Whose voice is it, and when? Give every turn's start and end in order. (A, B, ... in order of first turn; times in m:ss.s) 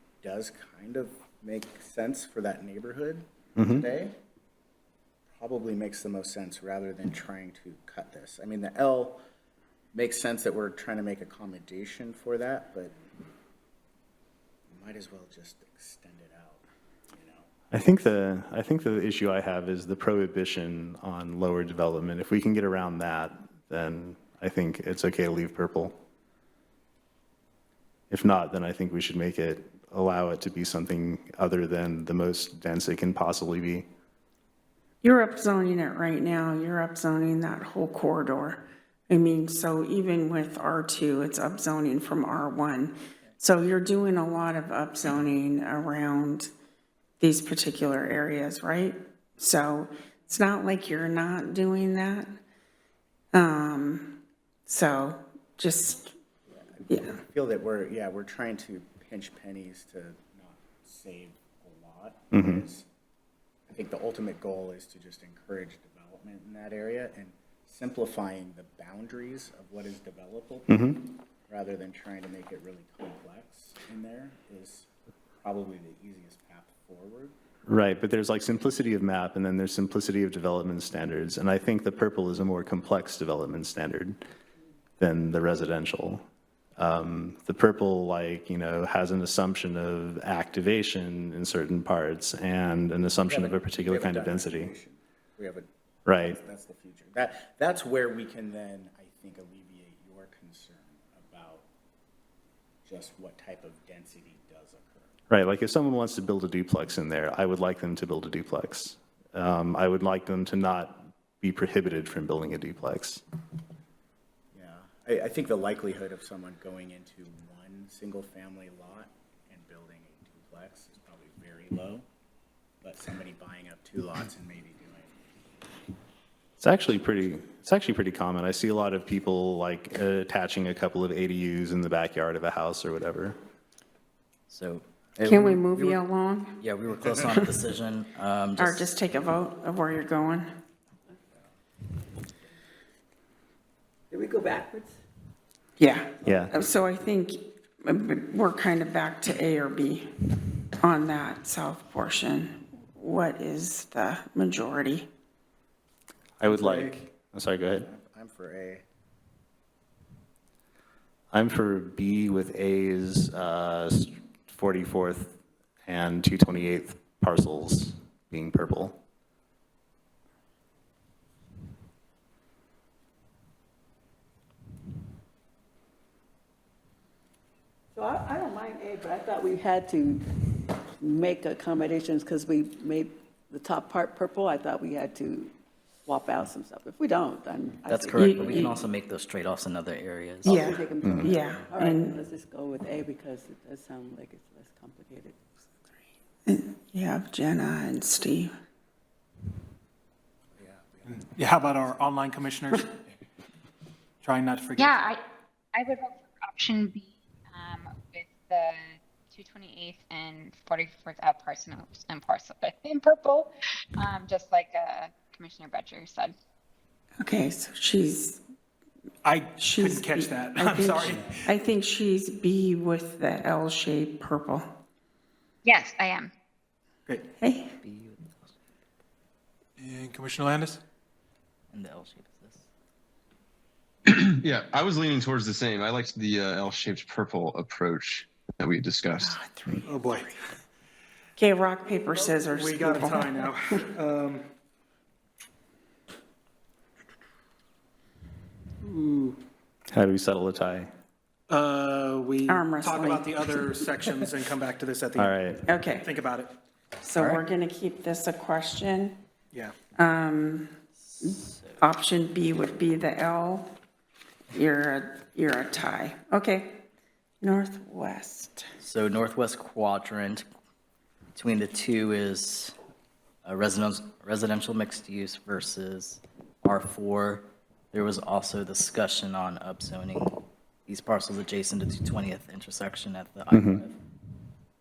0:00.2-0:04.2 A
0:03.6-0:03.9 B
0:05.3-0:09.2 A
0:09.9-0:12.9 A
0:14.7-0:17.7 A
0:17.7-0:26.0 B
0:28.1-0:33.9 B
0:35.0-0:46.5 C
0:47.2-0:52.3 C
0:53.3-0:56.1 C
0:56.8-1:02.9 A
0:56.9-0:57.2 C
1:02.3-1:02.6 B
1:03.7-1:10.9 A
1:10.7-1:11.0 B
1:11.5-1:14.9 A
1:15.4-1:17.3 A
1:17.6-1:24.2 B
1:25.0-1:26.2 B
1:26.8-1:34.7 B
1:33.3-1:35.7 A
1:36.0-1:36.4 B
1:36.2-1:41.6 A
1:42.8-1:45.1 A
1:45.3-1:53.2 B
1:54.5-2:02.0 A
2:02.8-2:05.1 A
2:06.6-2:13.4 B
2:14.5-2:16.0 D
2:15.2-2:16.6 C
2:16.6-2:18.9 D
2:18.6-2:20.5 C
2:24.1-2:25.0 E
2:25.8-2:35.1 C
2:26.2-2:26.5 B
2:36.4-2:37.9 B
2:36.5-2:36.9 F
2:37.8-2:38.8 A
2:41.3-2:49.0 B
2:57.9-3:05.5 E
3:06.0-3:08.9 E
3:07.9-3:10.5 D
3:08.2-3:08.7 C
3:10.4-3:15.4 E
3:10.4-3:12.2 C
3:11.0-3:11.3 B
3:16.4-3:18.5 C
3:21.0-3:22.1 A
3:21.0-3:22.9 F
3:24.2-3:25.1 F
3:24.8-3:25.2 G
3:25.7-3:36.3 G
3:37.2-3:38.4 C
3:39.2-3:41.5 F
3:39.6-3:44.7 C
3:45.6-3:46.3 G
3:47.4-3:47.7 C
3:47.8-3:48.5 D
3:49.8-3:50.8 F
3:51.7-3:52.6 D
3:54.0-3:59.3 H
3:59.3-4:00.2 C
3:59.8-4:00.3 F
4:01.4-4:03.4 C
4:02.5-4:04.4 F
4:08.8-4:09.4 F
4:09.9-4:10.9 B
4:11.5-4:16.5 F
4:12.5-4:13.5 C
4:15.2-4:15.6 B
4:15.6-4:16.1 C
4:17.0-4:19.2 C
4:17.2-4:17.4 B
4:20.0-4:23.7 C
4:24.5-4:26.8 C
4:27.4-4:28.6 C
4:28.8-4:30.4 D
4:31.3-4:32.7 D
4:33.4-4:43.9 D
4:43.5-4:43.8 B